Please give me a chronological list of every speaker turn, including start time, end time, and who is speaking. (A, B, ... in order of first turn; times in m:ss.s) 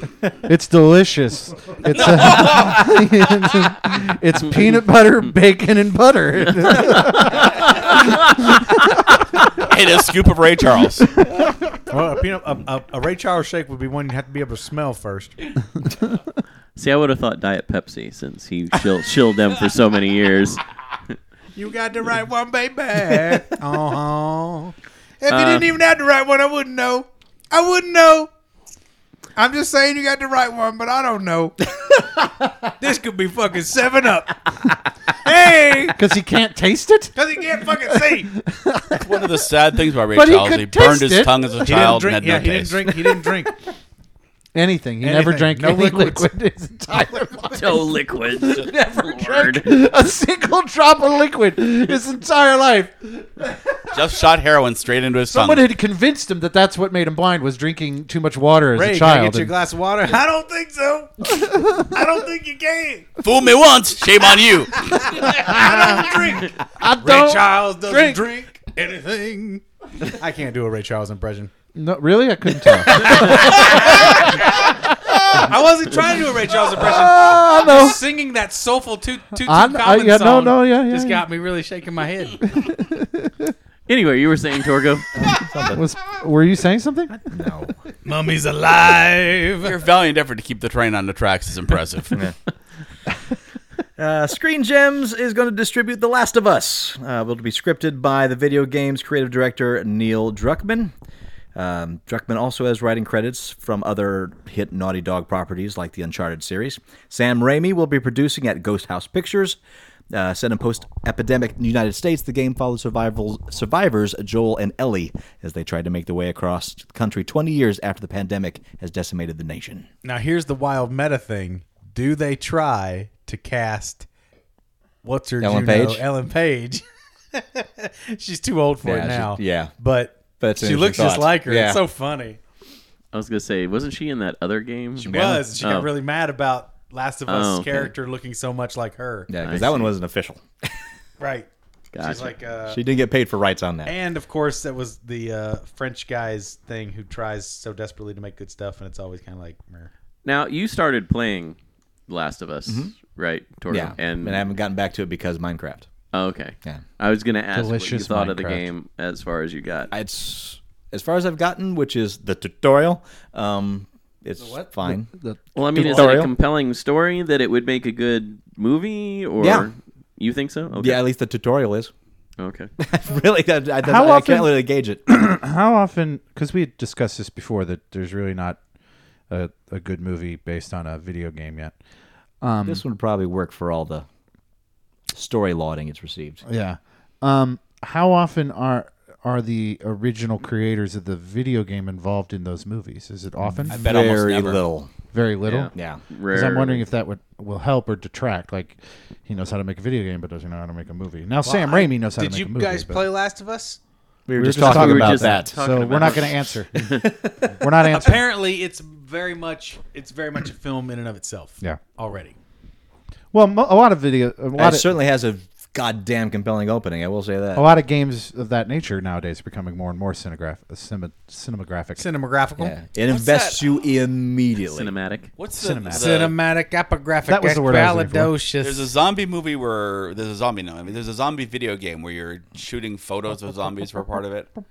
0:00.4-0:07.9 A
0:02.0-0:02.8 B
0:09.5-0:11.2 B
0:11.9-0:15.4 C
0:16.8-0:20.6 D
0:21.6-0:28.3 C
0:25.3-0:25.7 D
0:29.4-0:32.1 C
0:32.8-0:34.7 C
0:35.2-0:36.0 C
0:36.0-0:37.2 A
0:37.2-0:38.3 C
0:37.9-0:39.4 A
0:39.0-0:43.1 B
0:40.1-0:41.7 A
0:41.6-0:43.6 C
0:44.6-0:53.8 A
0:45.0-0:46.3 C
0:47.5-0:49.7 D
0:53.9-0:55.7 B
0:55.3-0:59.6 A
0:58.8-1:03.1 C
1:03.2-1:05.9 B
1:04.9-1:11.5 C
1:05.5-1:06.0 A
1:06.8-1:08.2 A
1:11.8-1:15.5 A
1:12.9-1:14.6 C
1:15.3-1:22.4 C
1:16.8-1:18.0 A
1:19.4-1:21.2 A
1:22.4-1:23.5 A
1:23.9-1:25.1 D
1:25.2-1:25.8 E
1:25.7-1:27.2 A
1:27.3-1:27.8 E
1:28.0-1:29.8 C
1:29.6-1:32.2 B
1:34.0-1:40.9 E
1:41.6-1:49.6 E
1:50.1-1:59.9 E
2:00.0-2:04.1 C
2:05.0-2:12.4 C
2:05.4-2:06.1 E
2:08.8-2:09.7 E
2:10.4-2:11.8 E
2:13.1-2:15.9 D
2:15.0-2:19.3 C
2:15.1-2:15.6 E
2:17.3-2:17.9 D
2:19.3-2:20.7 E
2:19.4-2:19.9 D
2:21.2-2:22.8 C
2:21.9-2:22.3 D
2:22.7-2:24.0 E
2:23.9-2:29.9 C
2:30.2-2:31.6 D
2:32.1-2:34.4 D
2:32.7-2:32.9 E
2:33.7-2:35.9 E
2:36.1-2:39.9 D
2:37.5-2:38.7 A
2:39.9-2:45.1 E
2:44.4-2:45.4 A
2:45.6-2:51.0 D
2:45.7-2:46.3 E
2:49.4-2:49.7 E
2:50.7-2:51.9 E
2:52.4-2:52.7 D
2:52.8-2:55.0 E
2:53.8-2:58.6 A
2:59.3-3:01.8 A
3:02.4-3:02.8 A
3:02.7-3:04.1 E
3:05.1-3:06.4 E
3:06.5-3:13.8 A
3:13.5-3:14.9 E
3:13.7-3:14.6 B
3:15.1-3:15.7 A
3:15.4-3:16.8 D
3:15.7-3:16.0 E
3:16.3-3:23.0 A
3:21.4-3:23.8 C
3:24.3-3:25.5 E
3:24.4-3:28.2 A
3:24.6-3:27.0 D
3:27.0-3:27.5 E
3:27.9-3:32.4 C
3:33.3-3:34.9 A
3:34.6-3:37.7 E
3:37.5-3:42.1 A
3:42.0-3:42.8 C
3:42.6-3:44.9 E
3:43.1-3:43.6 B
3:44.7-3:45.3 D
3:45.4-3:46.4 B
3:45.6-3:46.1 A
3:45.9-3:48.9 C
3:47.3-3:48.3 A
3:48.6-3:54.5 B